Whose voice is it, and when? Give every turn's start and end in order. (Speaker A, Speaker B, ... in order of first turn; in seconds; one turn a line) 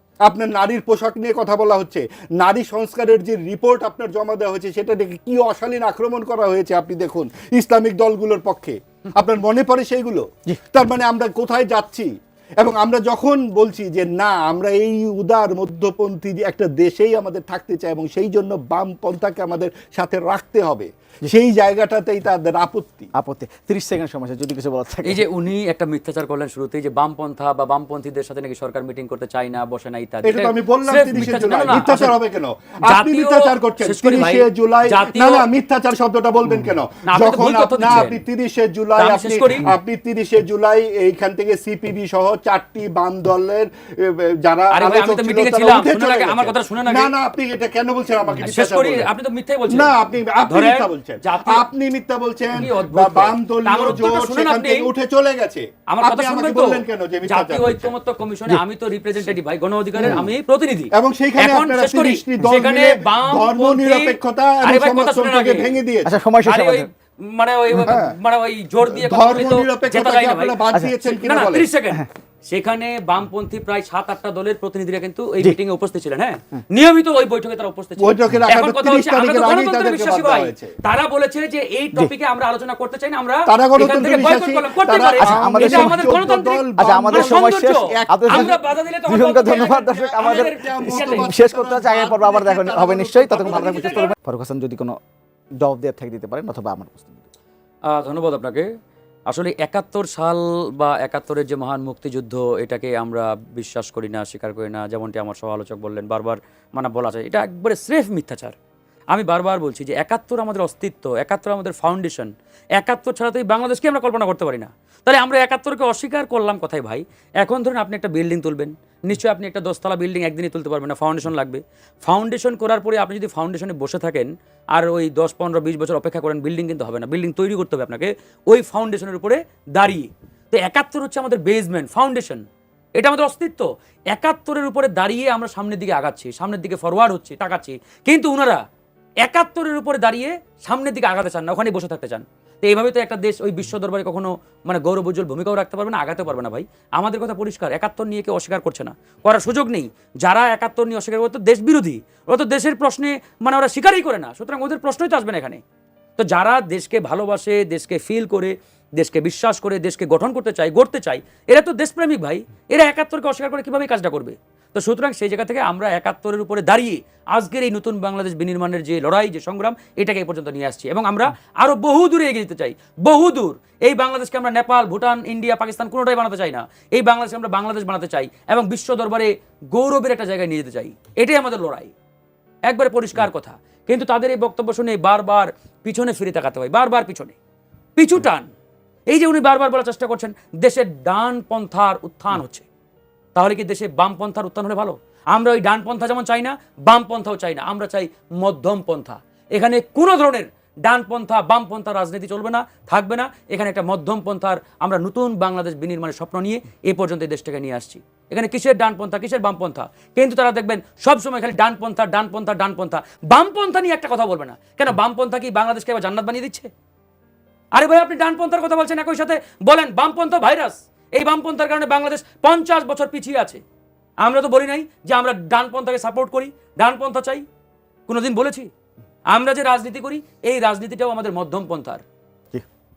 Speaker A: 0.2-23.1
Speaker B: 23.1-25.2
Speaker C: 25.0-32.2
Speaker A: 30.2-49.1
Speaker C: 32.9-35.5
Speaker C: 37.1-38.2
Speaker C: 39.0-39.7
Speaker C: 44.7-47.1
Speaker C: 48.4-49.9
Speaker A: 49.7-57.9
Speaker C: 50.5-51.6
Speaker C: 52.5-54.9
Speaker C: 55.9-65.8
Speaker A: 60.0-60.3
Speaker A: 60.9-66.1
Speaker B: 66.0-66.9
Speaker C: 66.4-91.3
Speaker A: 67.7-68.1
Speaker A: 68.9-71.7
Speaker A: 78.0-80.7
Speaker A: 83.5-88.5
Speaker B: 85.2-95.0
Speaker A: 89.9-94.1
Speaker C: 93.4-94.1
Speaker B: 95.6-97.3
Speaker C: 97.9-98.7
Speaker C: 99.3-108.5
Speaker C: 109.1-132.4
Speaker C: 133.0-138.6
Speaker C: 139.2-155.6
Speaker C: 156.2-181.9
Speaker C: 182.7-187.3
Speaker C: 187.9-188.5
Speaker C: 189.1-192.7
Speaker C: 193.3-216.7
Speaker C: 217.7-223.6
Speaker C: 224.2-227.4
Speaker C: 228.1-228.7
Speaker C: 229.3-232.0